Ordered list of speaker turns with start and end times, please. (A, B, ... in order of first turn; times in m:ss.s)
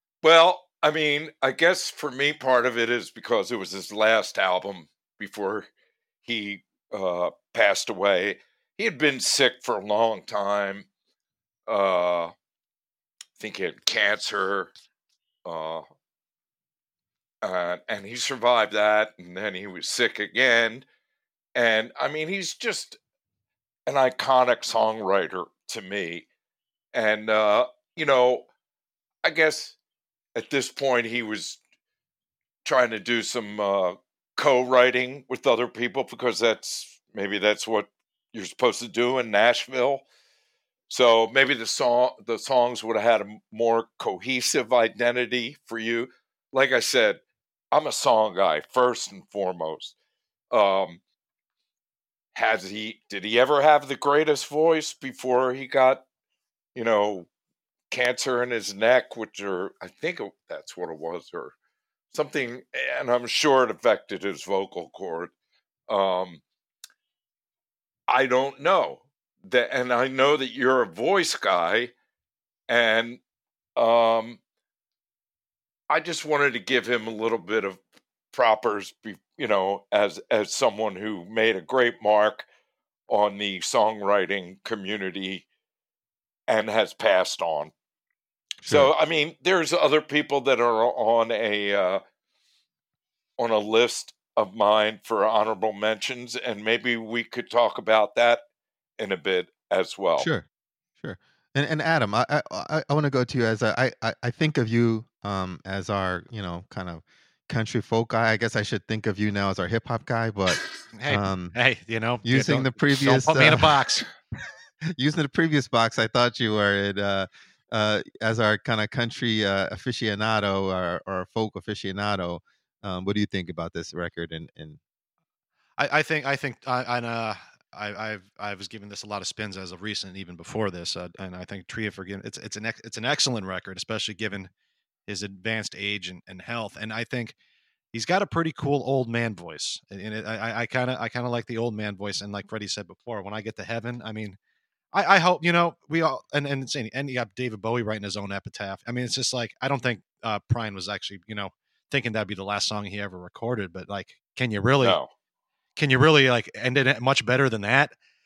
0:00.2-0:05.7 A
0:06.2-0:10.9 A
0:11.7-0:12.3 A
0:13.4-0:14.7 A
0:15.5-0:15.8 A
0:17.4-0:20.8 A
0:21.6-0:23.0 A
0:23.9-0:26.3 A
0:26.9-0:28.5 A
0:29.2-0:29.8 A
0:30.4-0:31.6 A
0:32.6-0:40.0 A
0:40.9-0:50.0 A
0:50.5-0:51.0 A
0:52.4-0:56.0 A
0:56.8-0:57.3 A
0:57.9-1:01.5 A
1:02.1-1:05.3 A
1:05.9-1:06.4 A
1:08.1-1:11.9 A
1:12.7-1:13.2 A
1:13.8-1:14.4 A
1:15.9-1:17.8 A
1:18.3-1:22.5 A
1:23.1-1:25.5 A
1:26.5-1:27.7 A
1:28.6-1:28.9 B
1:28.7-1:32.0 A
1:33.4-1:38.4 A
1:39.0-1:40.3 A
1:40.2-1:40.5 B
1:41.0-1:51.6 B
1:50.9-1:54.1 C
1:52.2-1:53.9 B
1:55.0-2:04.8 B
2:05.8-2:14.5 C
2:15.1-2:17.4 C
2:17.9-2:24.4 C
2:24.9-2:35.0 C
2:34.8-2:35.1 A
2:35.8-2:37.9 C